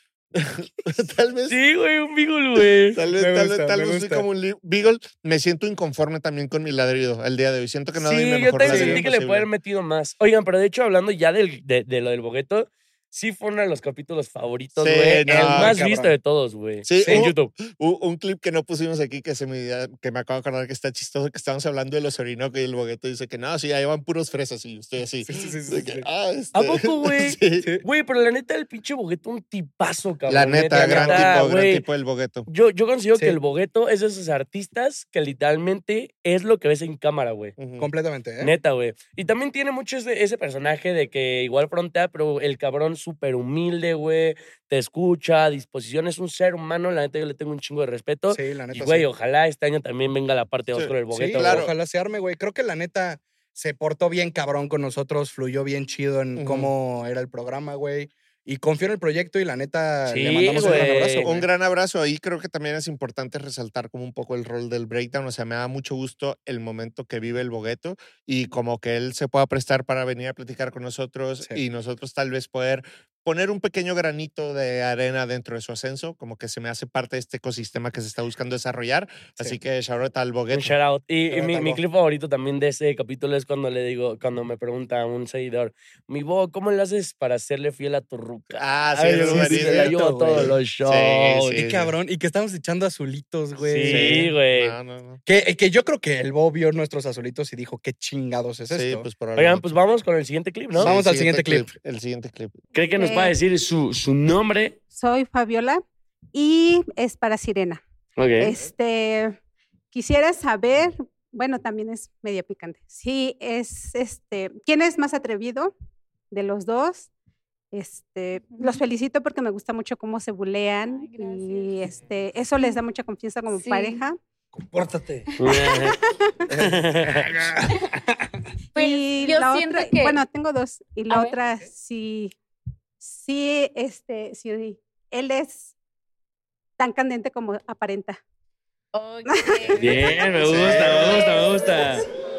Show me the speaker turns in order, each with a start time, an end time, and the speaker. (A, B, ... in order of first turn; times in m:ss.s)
0:00.3-0:01.6 A
0:01.5-0:03.0 B
0:02.9-0:09.5 A
0:03.1-0:04.2 C
0:08.0-0:17.5 B
0:08.6-0:09.0 C
0:14.8-0:15.8 A
0:15.2-0:16.1 C
0:16.8-0:27.6 A
0:17.0-0:17.3 C
0:25.2-0:26.0 C
0:26.5-0:31.8 B
0:30.3-0:32.5 A
0:30.7-0:31.5 C
0:32.5-0:37.6 B
0:37.6-0:37.9 A
0:37.8-0:38.5 C
0:38.4-0:51.7 B
0:48.3-0:49.1 C
0:50.7-0:51.7 A
0:51.1-1:01.4 C
0:56.4-0:56.7 A
1:00.1-1:01.3 B
1:00.6-1:20.7 A
1:20.5-1:31.6 B
1:21.3-1:21.8 C
1:28.6-1:31.9 A
1:29.0-1:30.5 C
1:31.5-1:34.3 C
1:33.6-1:34.8 B
1:33.9-1:35.2 A
1:35.2-1:39.1 C
1:38.7-1:39.6 A
1:39.3-1:40.9 B
1:40.7-1:42.6 A
1:40.8-1:41.7 C
1:42.7-1:44.8 B
1:43.0-1:43.3 D
1:44.9-1:45.8 D
1:46.3-1:47.8 D
1:48.2-1:48.5 B
1:48.4-1:49.4 D
1:49.9-1:55.7 D
1:56.3-1:57.1 D
1:57.7-2:04.2 D
2:00.8-2:01.8 E
2:03.5-2:04.0 E
2:05.3-2:06.0 E
2:05.4-2:06.0 B
2:06.1-2:06.5 D
2:06.6-2:07.3 B
2:07.6-2:07.9 E
2:08.7-2:10.2 E
2:08.7-2:12.3 D
2:11.1-2:11.4 E
2:13.0-2:15.7 D
2:16.8-2:18.2 D
2:18.9-2:22.0 E
2:19.3-2:19.7 D
2:19.7-2:22.0 B
2:20.5-2:20.8 A